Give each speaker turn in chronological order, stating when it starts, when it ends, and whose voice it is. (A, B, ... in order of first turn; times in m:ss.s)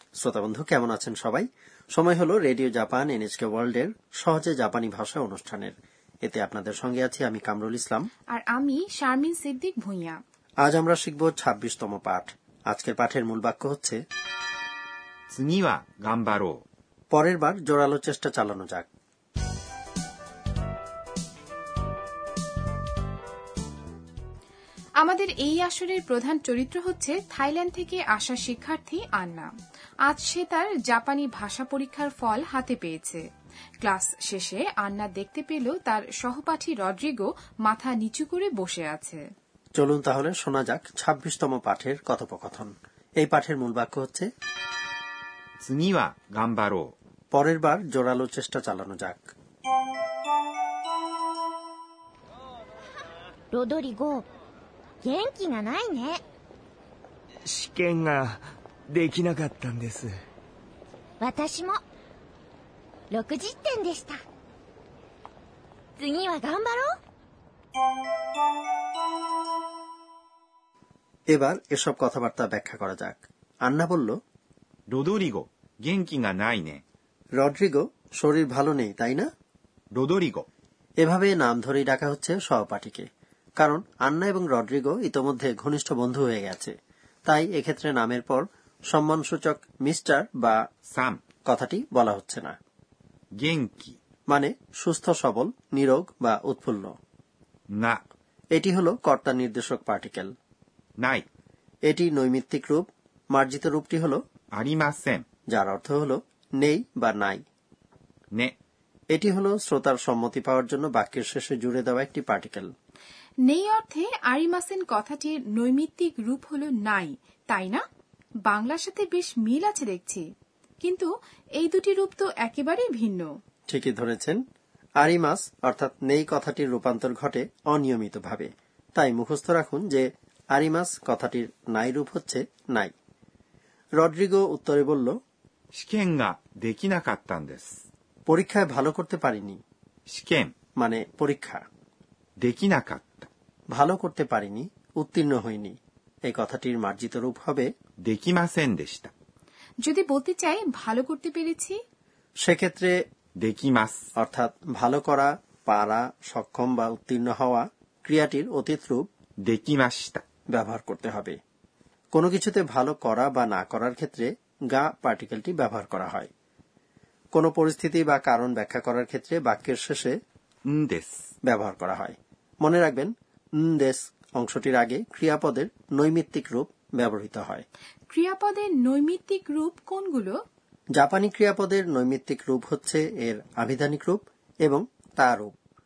0:00.2-0:08.1 A
0:08.3-0:10.2 B
0:10.6-0:14.0 A
0:15.3-0:16.6 C
0:17.1-0:18.9 A
0:25.0-0:29.5 B
0:30.1-0:33.2 B
0:33.8-0:39.2 B
0:39.8-0:44.3 A
0:45.6-0:46.9 C
0:47.3-0:49.3 A
0:53.5-0:54.2 D
0:55.0-0:56.2 D
0:57.4-1:00.2 E
1:01.2-1:01.8 D
1:03.1-1:04.2 D
1:06.0-1:07.0 D
1:11.3-1:14.2 A
1:14.9-1:16.8 C
1:17.4-1:19.3 A
1:20.0-1:20.5 C
1:21.0-1:23.1 A
1:23.6-1:26.7 A
1:27.3-1:30.6 A
1:30.9-1:31.2 C
1:31.5-1:32.6 A
1:33.4-1:34.0 C
1:34.3-1:36.9 A
1:38.6-1:40.3 A
1:41.0-1:41.3 C
1:41.9-1:44.2 A
1:44.6-1:45.2 C
1:45.5-1:47.4 A
1:49.1-1:52.7 A
1:53.5-1:57.8 B
1:58.5-2:00.2 B
2:00.8-2:03.3 B
2:03.7-2:04.4 A
2:05.0-2:12.9 A
2:14.0-2:15.2 A
2:15.7-2:17.8 C
2:18.3-2:19.6 A
2:20.1-2:20.5 C
2:20.8-2:21.6 A
2:22.4-2:23.3 C
2:23.7-2:27.7 A
2:28.1-2:29.1 C
2:29.8-2:31.8 B
2:32.4-2:32.9 A
2:33.4-2:34.0 C
2:34.2-2:39.0 A
2:39.4-2:40.2 C
2:40.5-2:41.4 A
2:42.1-2:46.3 A
2:47.3-2:50.2 A
2:50.7-2:51.2 C
2:51.4-2:57.6 A
2:58.1-3:00.4 B
3:01.0-3:05.6 A